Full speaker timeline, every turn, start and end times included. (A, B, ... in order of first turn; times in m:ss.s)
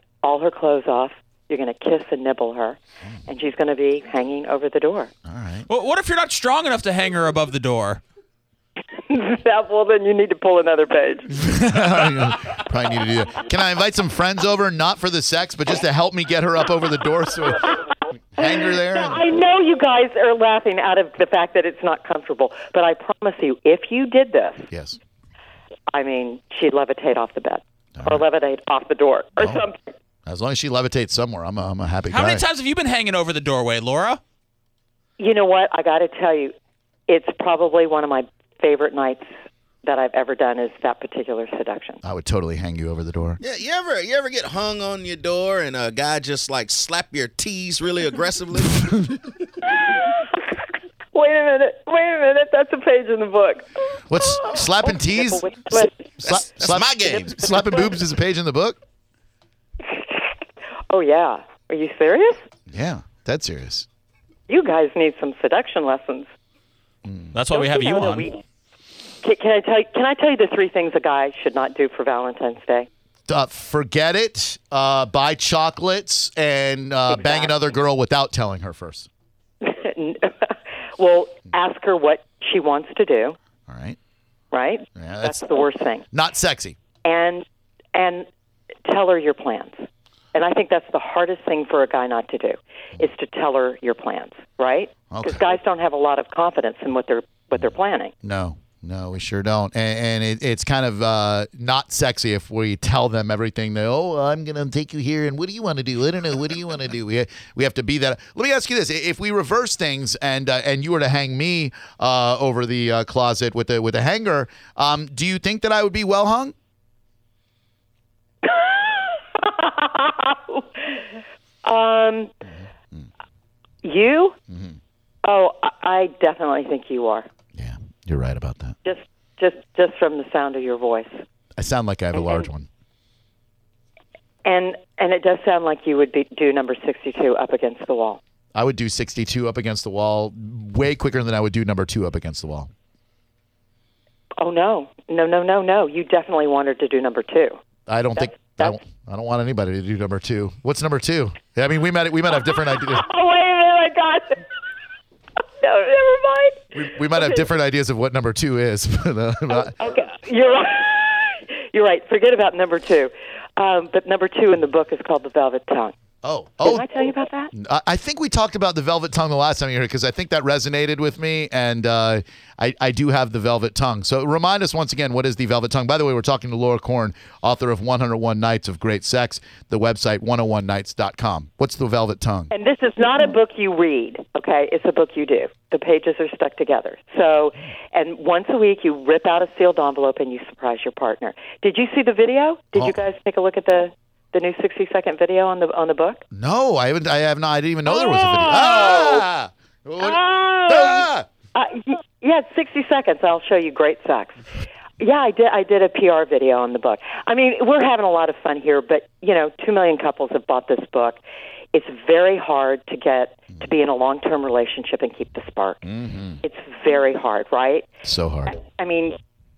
0:00.2-0:05.1 A
0:05.2-0:05.7 B
0:05.7-0:08.0 C
0:09.1-0:11.4 A
0:11.3-0:19.2 B
0:18.4-0:24.6 A
0:24.7-0:25.0 B
0:25.9-0:29.8 A
0:28.0-0:28.2 B
0:29.4-0:29.6 B
0:30.2-0:32.4 B
0:32.1-0:34.2 C
0:35.2-0:36.5 A
0:37.1-0:39.3 A
0:39.8-0:42.0 A
0:42.0-0:43.4 B
0:43.4-0:49.1 D
0:48.8-0:49.2 B
0:51.1-0:56.0 A
0:54.1-0:58.8 B
0:56.2-0:57.6 D
0:57.5-0:57.9 A
0:59.9-1:00.2 A
1:00.9-1:02.4 A
1:02.7-1:03.9 B
1:04.5-1:06.3 A
1:07.0-1:07.4 B
1:07.3-1:08.3 C
1:07.5-1:08.4 A
1:09.2-1:12.9 A
1:13.3-1:19.1 B
1:17.1-1:17.6 A
1:19.6-1:23.4 A
1:23.7-1:24.0 B
1:24.5-1:26.0 A
1:25.0-1:25.4 B
1:26.1-1:26.8 B
1:27.0-1:28.3 A
1:28.8-1:38.1 A
1:35.1-1:35.5 B
1:38.2-1:56.5 B
1:58.4-2:01.0 A
2:01.6-2:02.3 A
2:02.5-2:03.1 B
2:03.8-2:04.4 A
2:04.5-2:04.8 B
2:05.2-2:07.3 A
2:07.5-2:08.8 B
2:08.8-2:11.2 A
2:11.6-2:12.7 B
2:14.4-2:18.2 A
2:18.5-2:22.7 B
2:24.4-2:27.6 A
2:27.9-2:33.0 B
2:28.2-2:28.8 A
2:32.8-2:34.4 A
2:35.6-2:37.4 A
2:36.7-2:39.8 B
2:39.5-2:45.9 A
2:46.2-2:46.8 B
2:46.6-2:47.5 A
2:47.5-3:02.5 B
3:02.5-3:16.2 A
3:12.7-3:13.0 B
3:16.3-3:21.3 B
3:17.9-3:19.2 A
3:20.0-3:24.4 A
3:25.0-3:31.2 A
3:31.7-3:35.8 A
3:35.8-3:36.4 B
3:36.4-3:37.9 A
3:38.0-3:38.6 B
3:38.5-3:39.2 A